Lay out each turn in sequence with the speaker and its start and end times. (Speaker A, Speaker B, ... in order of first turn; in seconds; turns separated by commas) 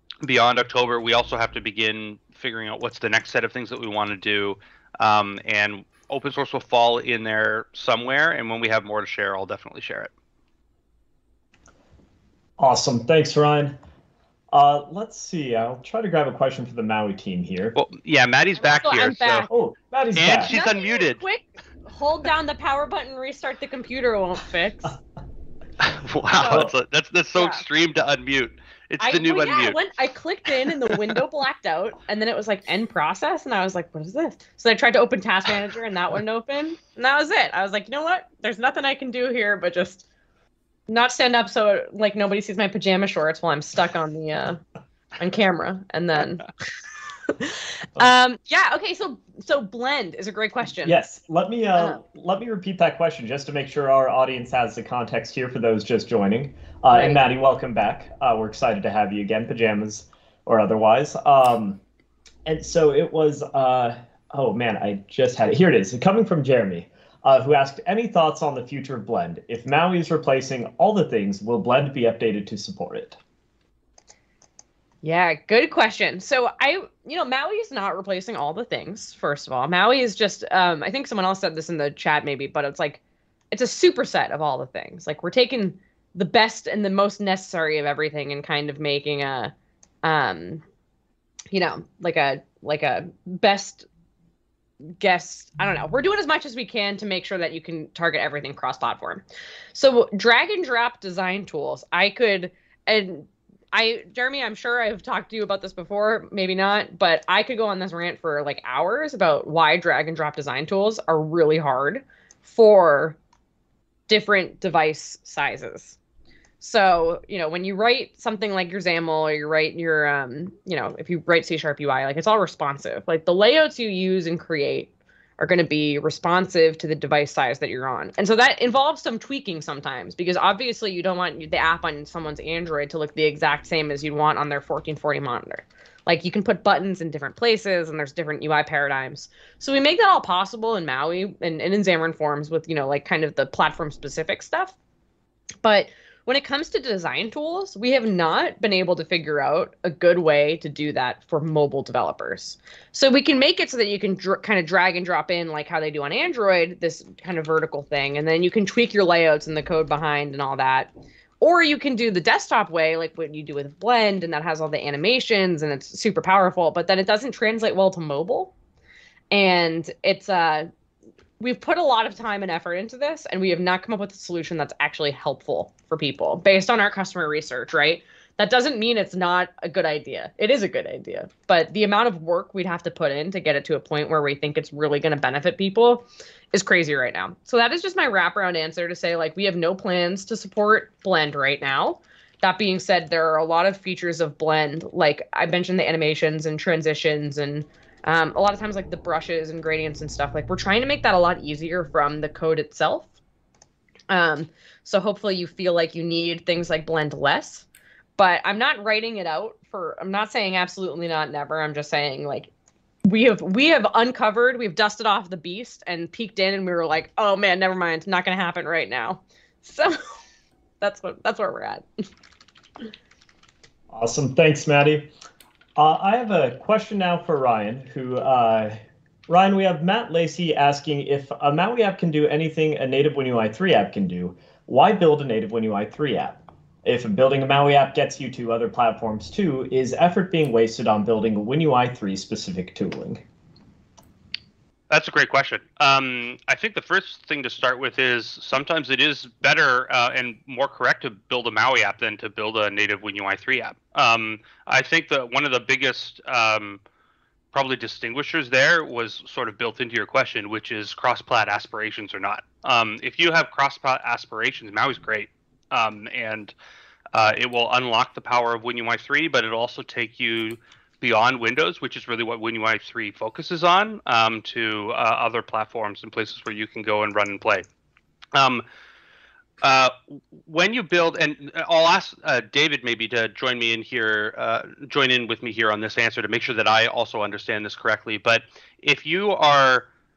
Speaker A: 0.2-10.1, Speaker B: 12.6-13.8, Speaker B: 14.5-17.8, Speaker A: 17.8-19.5, Speaker C: 18.6-19.5, Speaker B: 19.5-20.6, Speaker A: 20.1-21.2, Speaker C: 20.5-25.0, Speaker A: 25.8-29.8, Speaker C: 26.4-26.7, Speaker C: 27.3-27.6, Speaker C: 29.0-40.0, Speaker C: 40.9-44.6, Speaker C: 45.2-46.5, Speaker C: 47.3-51.0, Speaker B: 50.8-61.8, Speaker C: 51.8-52.0, Speaker C: 56.9-57.2, Speaker B: 62.5-73.2, Speaker C: 75.0-83.0, Speaker C: 83.5-90.6, Speaker C: 91.5-93.8, Speaker C: 95.0-113.2, Speaker C: 114.1-116.0, Speaker C: 116.6-144.7, Speaker C: 145.6-160.9, Speaker C: 161.4-168.5, Speaker C: 169.3-170.7, Speaker C: 171.4-203.1, Speaker C: 204.1-207.7, Speaker C: 208.2-212.5, Speaker C: 213.0-220.0, Speaker C: 220.8-221.8, Speaker B: 223.9-225.1, Speaker B: 225.8-243.2, Speaker A: 244.9-256.8, Speaker A: 257.5-266.5, Speaker A: 267.1-277.6, Speaker A: 278.3-278.6, Speaker A: 279.6-289.9